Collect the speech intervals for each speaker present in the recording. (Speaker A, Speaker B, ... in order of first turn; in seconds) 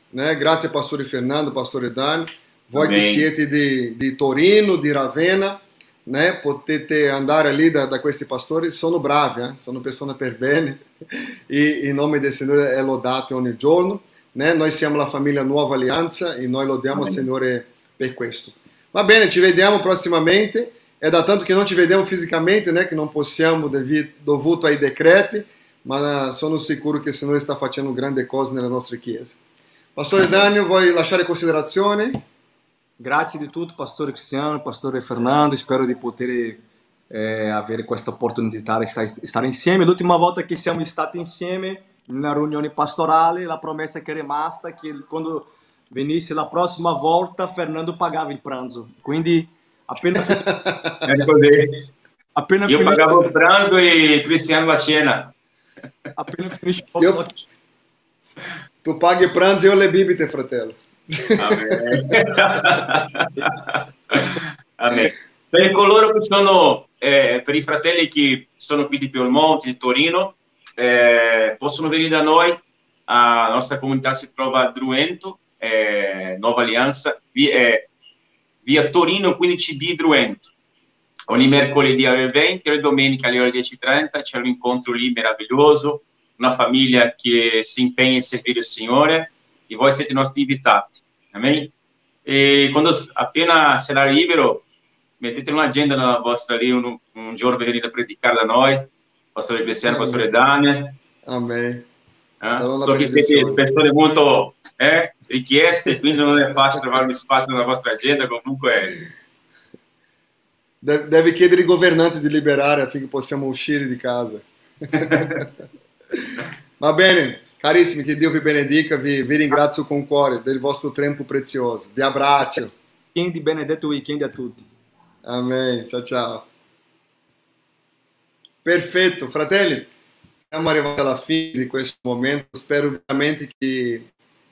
Speaker A: 0.1-10.8, 11.5-29.4, 29.9-32.2, 50.2-51.0, 57.0-57.2, 58.8-61.8, 99.8-100.3, 101.2-101.8, 102.6-103.6, 110.8-115.5, 116.8-122.7, 125.2-126.5, 128.6-129.9, 130.5-134.1
Speaker B: 2.7-3.3, 16.9-17.2, 51.0-51.9, 52.6-55.3, 61.4-77.9, 78.6-80.5, 81.3-91.7, 92.2-94.6, 95.2-101.0, 102.4-109.0
Speaker C: 33.0-50.4, 52.3-53.3, 56.1-57.4, 123.1-124.7